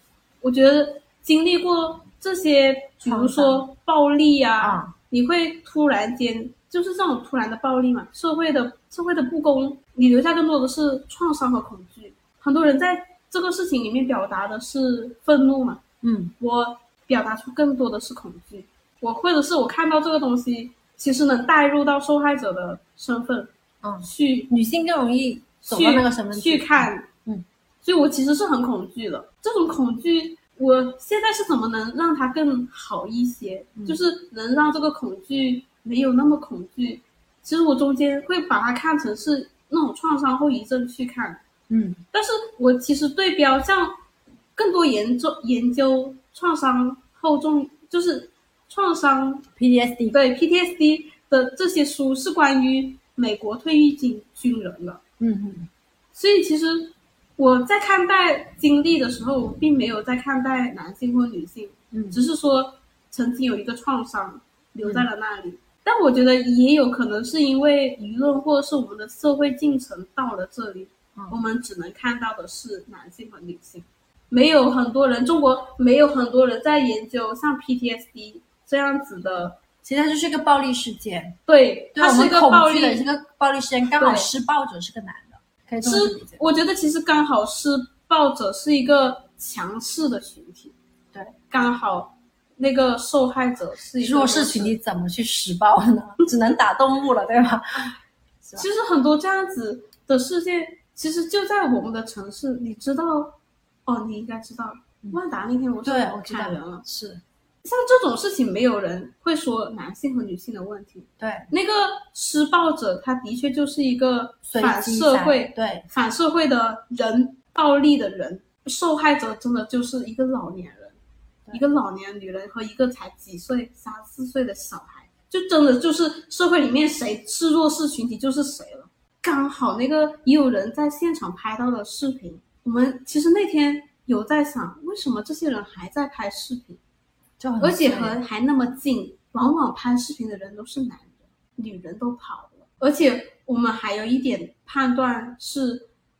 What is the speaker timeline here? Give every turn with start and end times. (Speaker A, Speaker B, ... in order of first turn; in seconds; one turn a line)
Speaker A: 0.4-15.8
Speaker B: 3.1-3.7
Speaker B: 4.6-4.9
Speaker B: 16.0-16.3
Speaker A: 16.4-24.5
Speaker B: 23.8-27.4
Speaker A: 25.6-27.1
Speaker A: 27.8-41.4
Speaker B: 41.7-42.0
Speaker A: 42.1-44.0
Speaker A: 44.6-49.5
Speaker B: 49.6-50.2
Speaker A: 50.1-55.0
Speaker B: 55.2-55.7
Speaker A: 56.1-79.6
Speaker B: 61.9-62.2
Speaker B: 64.8-65.1
Speaker B: 79.2-81.4
Speaker A: 81.5-83.0
Speaker B: 82.0-86.4
Speaker A: 84.0-84.3
Speaker A: 85.8-90.7
Speaker A: 91.5-94.8
Speaker B: 94.0-98.7
Speaker A: 98.6-106.8
Speaker B: 105.8-107.2
Speaker A: 107.6-121.0
Speaker B: 111.2-111.5
Speaker B: 114.5-115.8
Speaker A: 121.5-136.8
Speaker B: 137.4-138.2
Speaker A: 137.6-145.9